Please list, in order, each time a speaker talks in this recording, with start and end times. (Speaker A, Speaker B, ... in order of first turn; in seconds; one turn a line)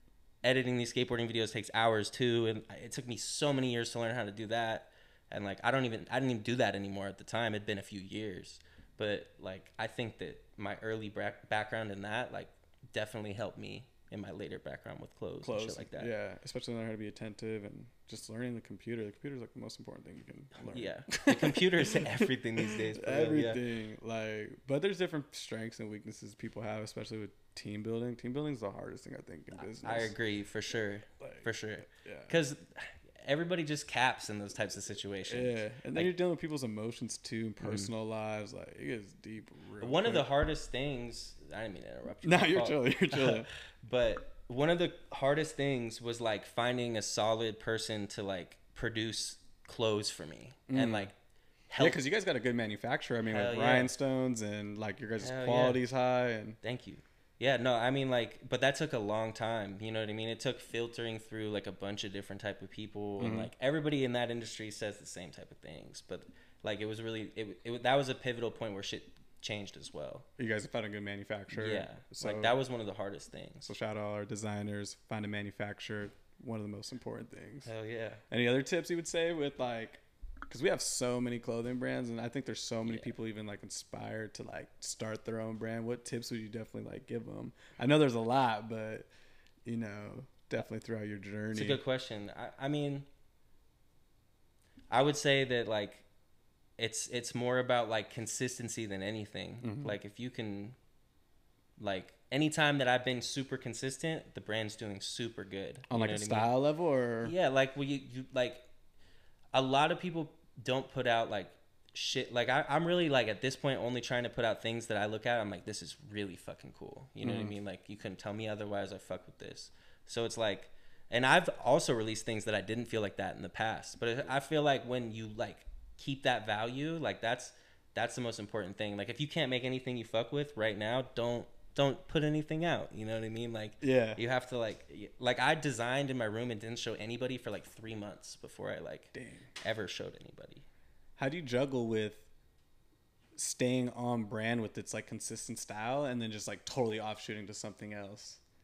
Speaker A: 0.4-16.1
Speaker B: 15.4-30.1
Speaker A: 20.7-23.6
Speaker A: 29.6-36.1
Speaker B: 31.2-32.3
Speaker B: 35.3-40.2
Speaker A: 37.6-37.9
Speaker A: 39.8-51.1
Speaker B: 42.2-43.5
Speaker B: 50.7-51.1
Speaker A: 51.7-52.0
Speaker B: 51.8-56.6
Speaker A: 53.2-53.9
Speaker A: 55.2-55.8
Speaker A: 56.6-70.2
Speaker B: 63.2-63.5
Speaker B: 70.4-72.5
Speaker A: 71.5-73.7
Speaker B: 73.6-77.7
Speaker A: 77.6-78.2
Speaker B: 78.3-89.1
Speaker B: 89.6-91.8
Speaker A: 91.5-93.1
Speaker A: 94.9-96.0
Speaker A: 96.8-100.8
Speaker B: 99.6-99.9
Speaker A: 101.8-106.5
Speaker B: 105.9-107.3
Speaker A: 107.2-108.7
Speaker A: 109.5-140.6
Speaker B: 117.2-117.5
Speaker B: 133.8-134.2
Speaker B: 139.1-139.5
Speaker B: 141.2-142.2
Speaker B: 143.3-148.4